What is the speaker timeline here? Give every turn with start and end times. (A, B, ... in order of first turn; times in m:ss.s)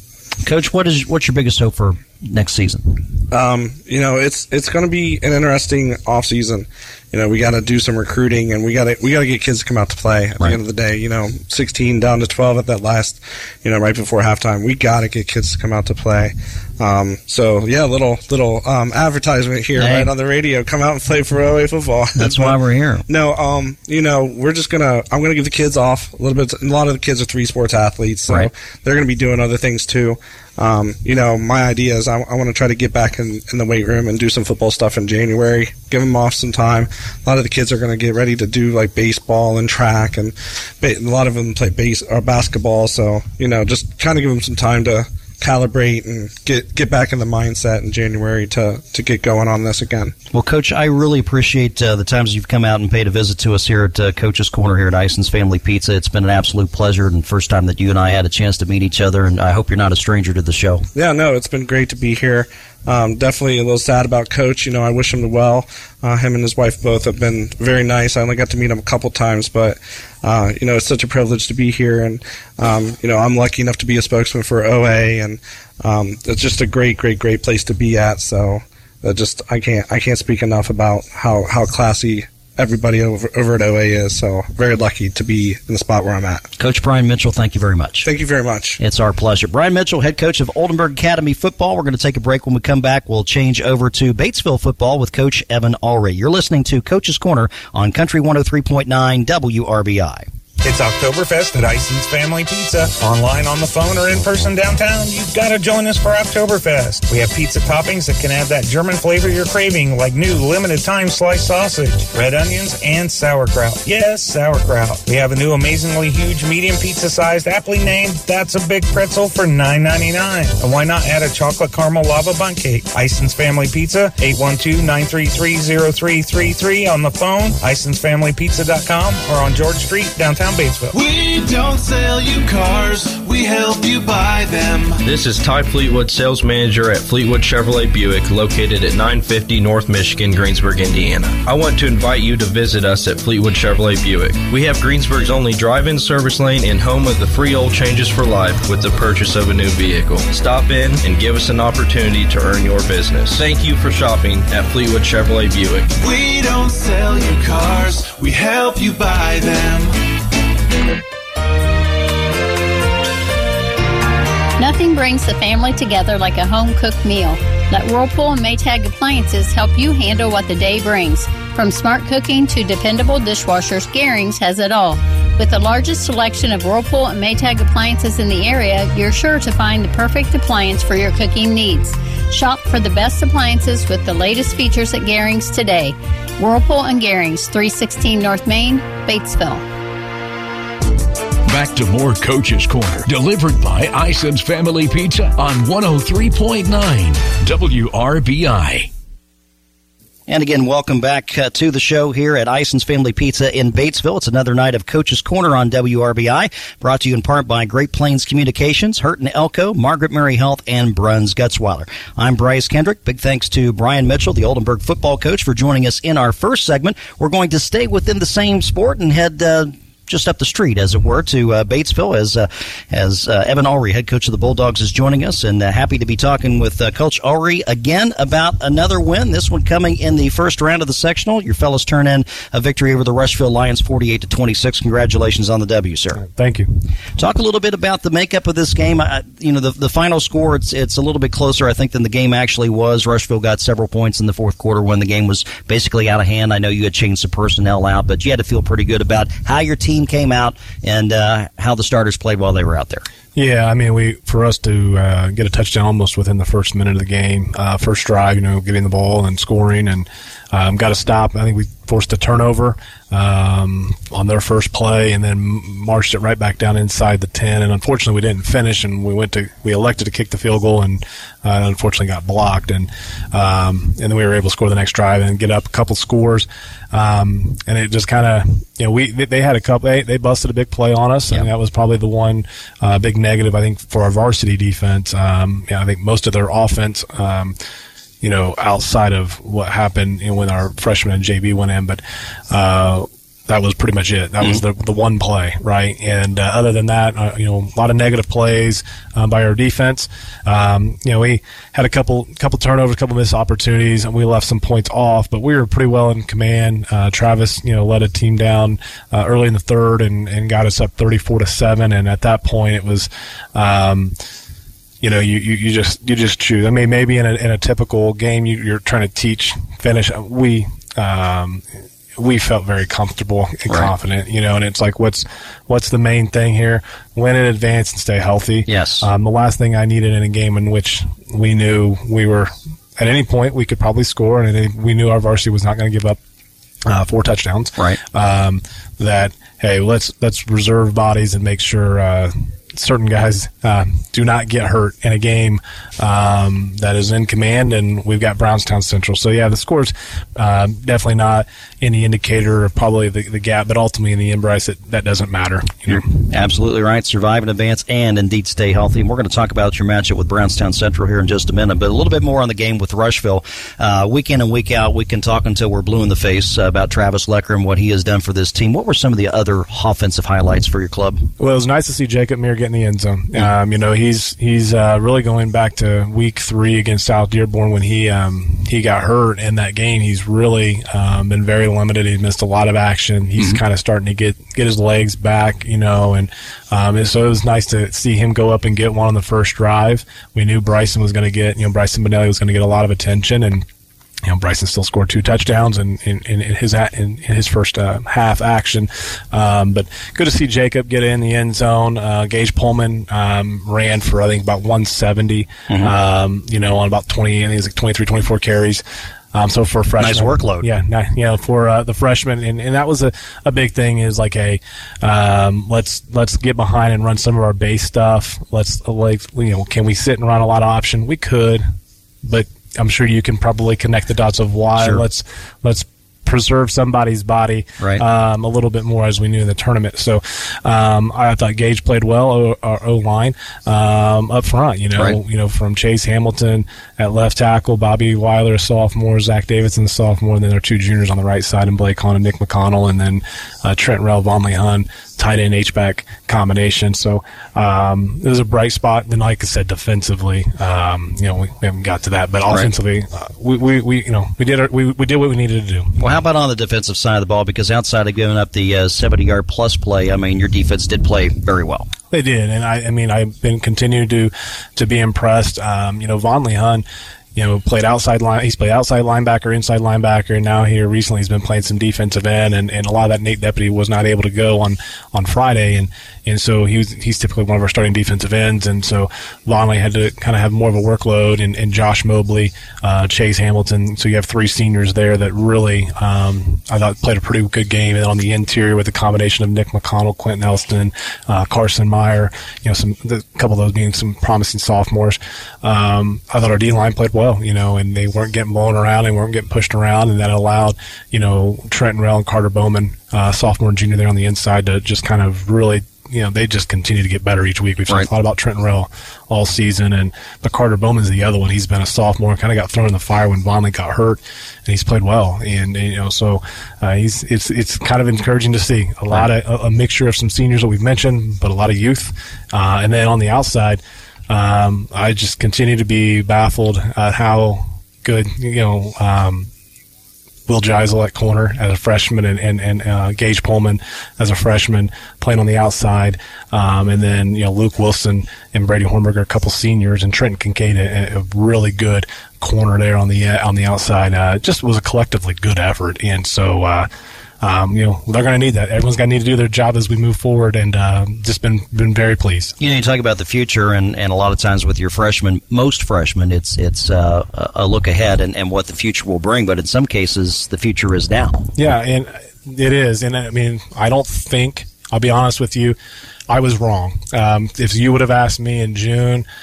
0:00.4-0:03.0 A
0:03.3-0:50.1 B
0:19.8-0:20.1 A
0:22.2-0:23.0 A
0:50.3-1:00.8 A
1:00.9-1:26.5 B
1:26.6-1:28.1 A
1:28.0-1:28.8 B
1:28.8-1:40.3 A
1:40.6-2:11.0 C
2:10.9-2:15.0 D
2:15.0-2:35.9 E
2:36.0-2:39.9 D
2:44.6-3:09.6 F
3:11.5-3:18.9 G
3:20.3-3:56.2 A
3:56.2-3:56.7 H
3:57.2-4:13.0 A
4:13.4-4:47.6 H
4:48.2-5:14.1 H
5:15.0-5:21.6 H
5:22.2-5:36.2 H
5:28.7-5:29.1 A
5:36.9-5:56.0 H
5:55.9-6:11.3 A
6:11.4-6:33.6 H
6:34.2-6:48.8 H
6:49.3-7:01.6 H
6:50.0-6:50.7 A
7:02.2-7:36.0 H
7:04.8-7:05.0 A
7:36.0-7:41.9 A
7:42.1-7:46.8 H
7:47.4-8:49.5 H
8:50.5-9:06.9 H
9:07.4-9:12.5 H
9:12.6-9:21.5 A
9:21.5-9:25.8 H
9:26.3-9:29.2 H